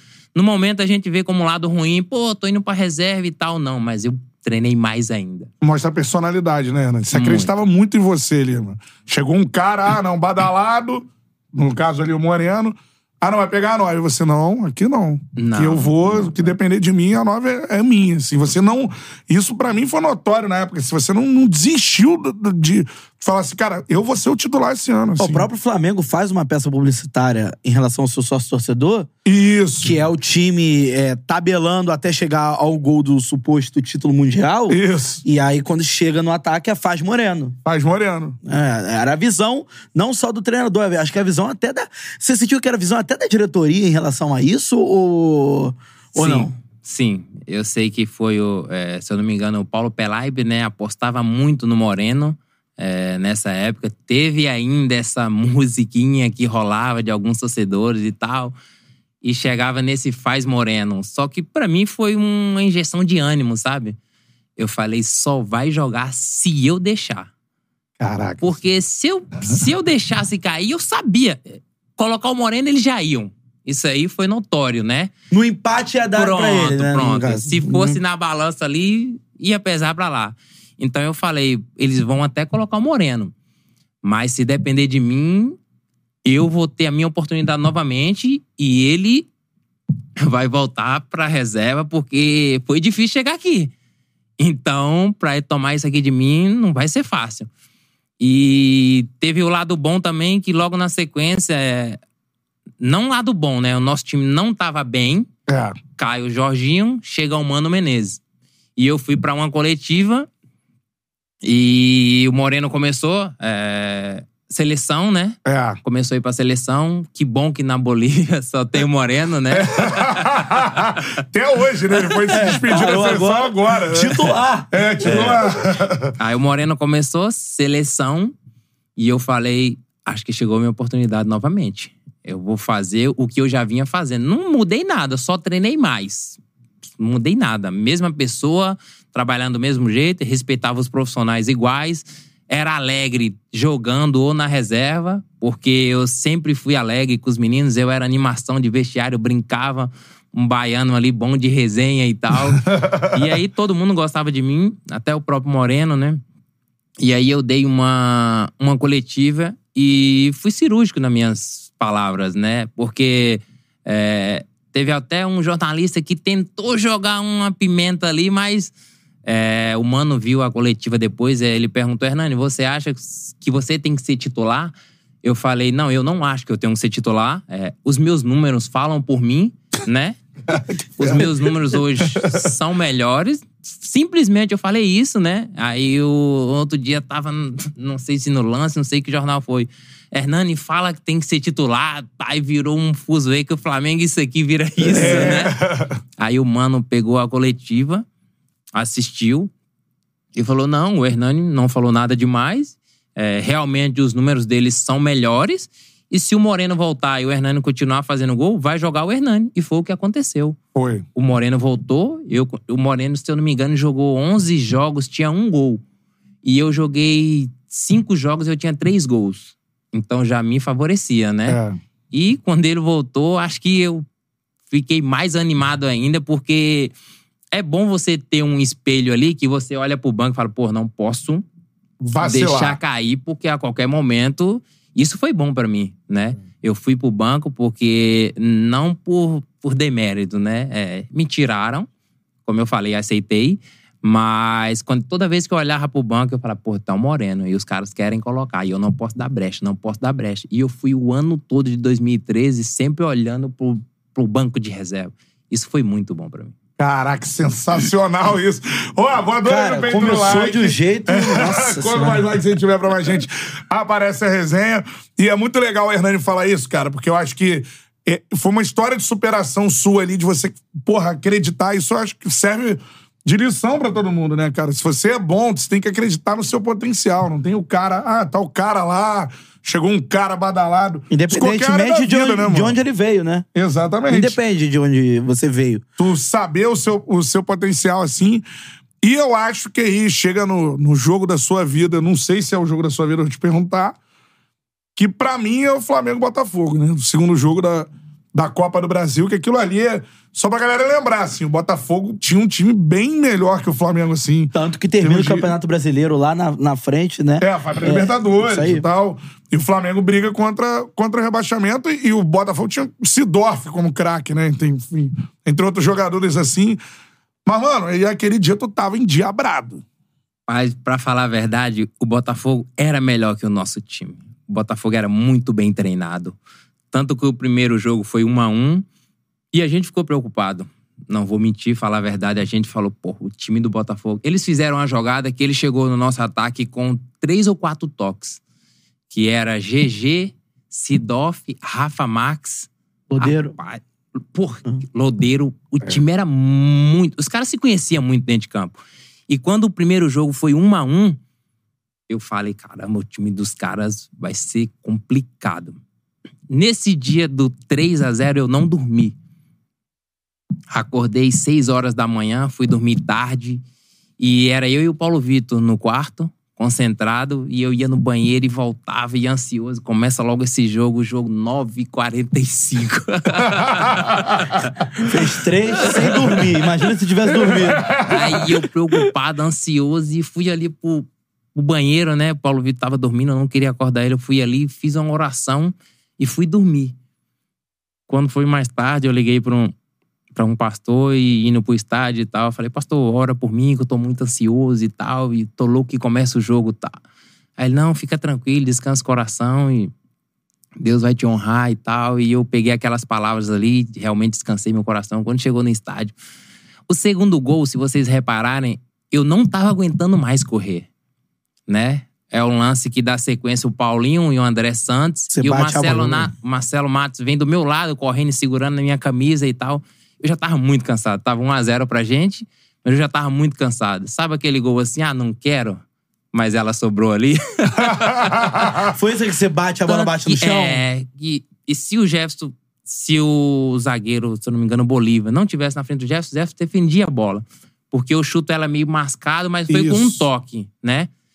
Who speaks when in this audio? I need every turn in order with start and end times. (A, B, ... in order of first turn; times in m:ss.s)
0:00.3-0:05.5 A
0:05.6-0:25.5 B
0:07.1-0:07.5 A
0:15.4-0:16.5 A
0:25.2-0:29.1 C
0:29.2-0:30.0 B
0:29.8-0:37.5 C
0:34.7-0:35.2 B
0:37.6-0:38.4 B
0:38.4-0:46.5 C
0:46.2-0:58.5 A
0:59.2-1:04.0 A
1:04.6-1:07.3 A
1:08.0-1:08.5 B
1:08.4-1:15.1 A
1:15.3-1:18.0 C
1:16.1-1:23.3 A
1:24.0-1:25.6 A
1:26.2-1:29.3 A
1:30.2-1:33.7 A
1:34.4-1:37.5 A
1:38.2-1:42.0 A
1:42.8-1:45.3 A
1:45.5-1:45.8 B
1:46.0-1:48.2 A
1:48.8-1:50.3 A
1:51.4-2:00.4 A
1:55.4-1:55.8 B
1:59.5-2:06.1 B
2:02.3-2:05.4 C
2:06.2-2:08.3 A
2:09.0-2:16.4 A
2:17.0-2:36.2 A
2:32.6-2:33.1 B
2:37.0-2:48.7 A
2:49.2-2:54.7 A
2:55.2-3:00.2 A
3:00.5-3:01.3 B
3:01.0-3:15.5 A
3:02.0-3:02.4 B
3:14.9-3:16.0 B
3:14.9-3:15.4 C
3:16.2-3:18.0 A
3:18.7-3:19.5 A
3:20.3-3:30.6 A
3:30.7-3:31.0 B
3:31.1-3:35.8 A
3:36.4-3:41.6 A
3:41.5-3:41.8 B
3:42.1-3:44.0 A
3:44.7-3:46.9 A
3:47.5-3:51.4 A
3:52.0-3:52.8 B
3:52.2-4:01.9 A
4:02.4-4:16.5 A
4:16.8-4:42.8 B
4:19.4-4:22.3 C
4:41.1-4:43.4 C
4:43.5-4:44.4 B
4:44.1-4:45.8 C
4:46.0-4:48.4 B
4:49.0-4:54.0 B
4:55.0-5:05.5 B
5:04.5-5:08.8 C
5:07.4-5:16.8 B
5:17.4-5:19.8 B
5:20.5-5:26.4 A
5:26.9-5:28.8 A
5:29.5-5:38.4 A
5:39.1-5:48.8 A
5:43.1-5:43.6 C
5:49.3-5:51.2 A
5:52.1-5:55.8 A
5:56.5-5:59.1 A
6:00.7-6:03.6 A
6:04.2-6:14.7 A
6:13.8-6:15.1 B
6:15.0-6:17.9 C
6:15.8-6:16.4 A
6:17.2-6:18.2 B
6:18.0-6:26.9 A
6:28.1-6:29.7 A
6:30.3-6:37.0 A
6:37.6-6:39.9 A
6:40.8-6:46.1 A
6:46.9-6:50.9 A
6:51.7-7:05.8 A
6:55.3-6:56.3 C
7:06.3-7:08.6 A
7:08.0-7:08.9 B
7:08.9-7:10.8 C
7:09.8-7:21.1 A
7:19.7-7:20.3 B